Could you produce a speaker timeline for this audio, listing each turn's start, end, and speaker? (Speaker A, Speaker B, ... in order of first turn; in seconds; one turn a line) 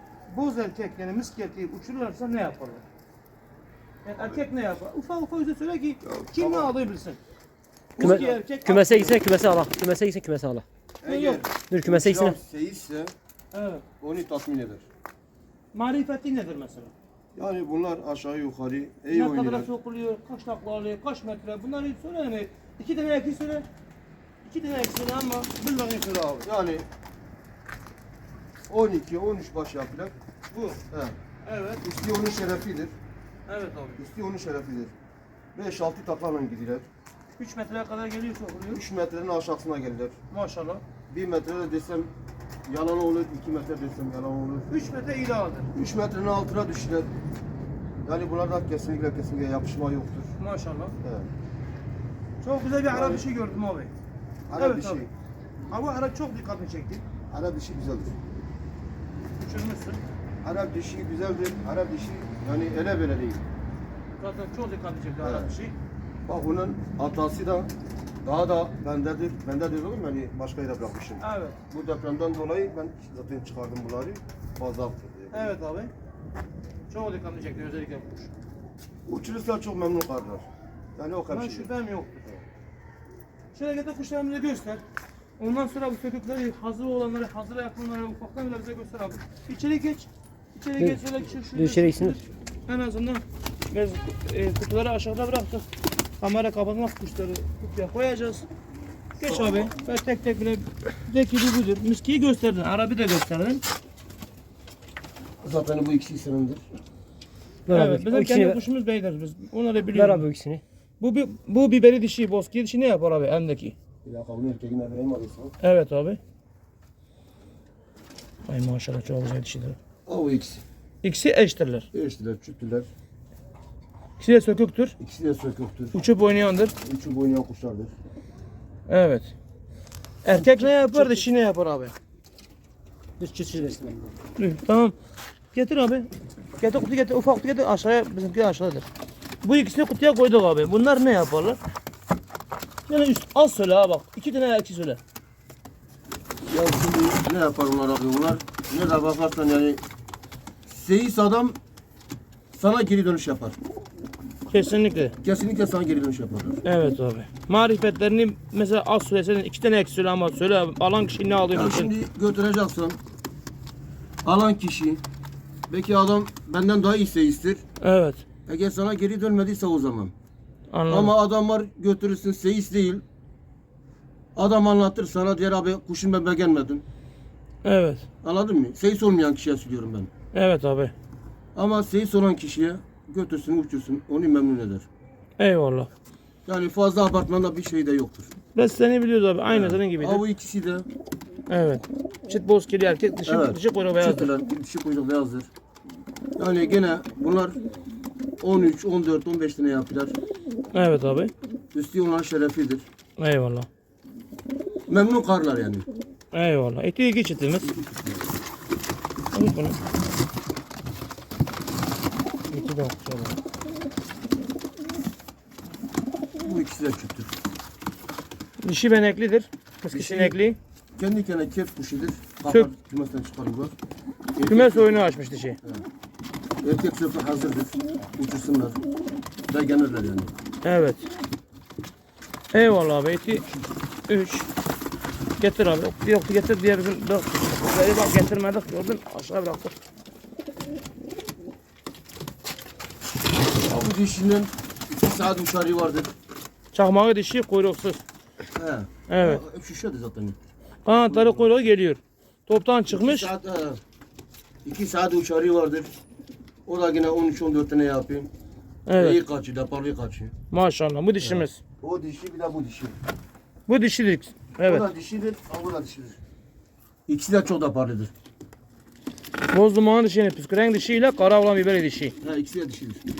Speaker A: 0.3-2.8
Speaker A: 4.0-7.2
Speaker B: 6.0-6.7
Speaker B: 8.0-8.4
Speaker A: 8.0-9.2
Speaker C: 8.0-10.6
Speaker B: 11.0-13.1
Speaker A: 11.1-11.4
Speaker C: 11.7-12.3
Speaker A: 13.5-13.8
Speaker B: 14.0-14.8
Speaker A: 15.7-16.9
Speaker B: 17.3-19.7
Speaker A: 19.1-23.7
Speaker A: 24.4-26.5
Speaker B: 26.4-26.9
Speaker B: 28.7-30.1
Speaker A: 30.5-30.8
Speaker B: 30.9-31.2
Speaker A: 31.4-31.8
Speaker B: 31.8-32.9
Speaker A: 33.5-34.0
Speaker B: 34.0-34.9
Speaker B: 35.5-36.9
Speaker A: 37.4-38.8
Speaker B: 38.7-40.1
Speaker A: 40.3-40.8
Speaker B: 41.1-42.1
Speaker B: 42.6-44.7
Speaker A: 44.7-45.7
Speaker B: 45.7-47.1
Speaker B: 48.0-50.3
Speaker A: 50.4-51.0
Speaker B: 51.0-51.3
Speaker A: 52.4-53.9
Speaker B: 52.9-53.2
Speaker B: 54.5-55.1
Speaker A: 54.5-55.1
Speaker A: 55.7-57.0
Speaker B: 57.3-58.1
Speaker A: 59.4-60.0
Speaker B: 60.4-63.4
Speaker A: 64.2-65.7
Speaker B: 65.2-65.5
Speaker B: 66.2-67.7
Speaker B: 68.2-75.5
Speaker A: 71.2-71.6
Speaker A: 75.3-75.9
Speaker A: 76.9-78.3
Speaker B: 79.0-81.7
Speaker A: 81.3-82.4
Speaker A: 83.5-84.8
Speaker A: 85.4-95.7
Speaker C: 90.8-92.2
Speaker A: 96.2-98.5
Speaker A: 99.2-103.6
Speaker B: 99.2-99.7
Speaker B: 105.4-106.6
Speaker C: 107.7-108.6
Speaker A: 107.7-110.2
Speaker C: 109.9-110.6
Speaker A: 111.0-113.8
Speaker B: 114.0-115.5
Speaker A: 115.6-116.2
Speaker A: 118.5-119.8
Speaker B: 120.0-120.6
Speaker A: 121.0-121.9
Speaker B: 121.9-122.9
Speaker A: 124.2-125.0
Speaker B: 125.0-126.0
Speaker A: 125.9-126.7
Speaker B: 126.8-127.9
Speaker A: 128.9-129.3
Speaker A: 130.2-131.9
Speaker C: 130.4-131.2
Speaker C: 133.2-134.1
Speaker A: 134.4-134.9
Speaker A: 135.5-138.8
Speaker A: 139.4-141.6
Speaker A: 142.9-145.0
Speaker B: 146.5-149.8
Speaker B: 150.7-151.6
Speaker B: 152.5-153.6
Speaker A: 154.5-155.1
Speaker B: 155.2-156.6
Speaker A: 156.6-161.9
Speaker B: 161.5-163.0
Speaker B: 164.2-165.0
Speaker B: 165.7-167.6
Speaker A: 167.8-168.2
Speaker B: 168.4-170.1
Speaker A: 170.7-171.1
Speaker B: 170.9-173.0
Speaker B: 174.3-176.8
Speaker A: 177.6-178.1
Speaker B: 178.2-180.1
Speaker A: 180.3-180.9
Speaker B: 181.5-184.9
Speaker A: 185.4-185.9
Speaker B: 186.4-188.3
Speaker A: 188.5-190.2
Speaker B: 189.5-190.9
Speaker A: 191.5-194.3
Speaker B: 193.2-195.5
Speaker B: 196.3-197.6
Speaker B: 198.4-200.2
Speaker A: 200.7-201.3
Speaker B: 201.7-202.8
Speaker A: 203.2-203.7
Speaker B: 204.9-205.8
Speaker A: 206.3-207.7
Speaker B: 207.6-208.2
Speaker A: 209.3-209.8
Speaker A: 212.5-213.4
Speaker B: 216.4-217.3
Speaker A: 218.6-220.6
Speaker B: 219.9-220.4
Speaker B: 220.9-223.7
Speaker B: 224.3-225.1
Speaker A: 224.5-225.6
Speaker B: 226.6-228.8
Speaker B: 229.5-230.3
Speaker A: 230.6-231.1
Speaker A: 232.5-233.5
Speaker A: 234.1-234.5
Speaker A: 235.4-239.7
Speaker B: 243.6-246.1
Speaker A: 246.7-248.0
Speaker B: 248.5-250.4
Speaker A: 249.1-249.4
Speaker A: 250.8-253.3
Speaker B: 250.9-251.5
Speaker B: 252.9-253.8
Speaker B: 254.6-255.9
Speaker B: 256.6-258.3
Speaker A: 258.9-259.2
Speaker B: 258.9-260.3
Speaker A: 260.5-261.6
Speaker B: 261.2-262.9
Speaker A: 263.7-264.8
Speaker B: 264.6-266.2
Speaker B: 267.1-268.1
Speaker A: 269.5-272.1
Speaker B: 272.2-273.0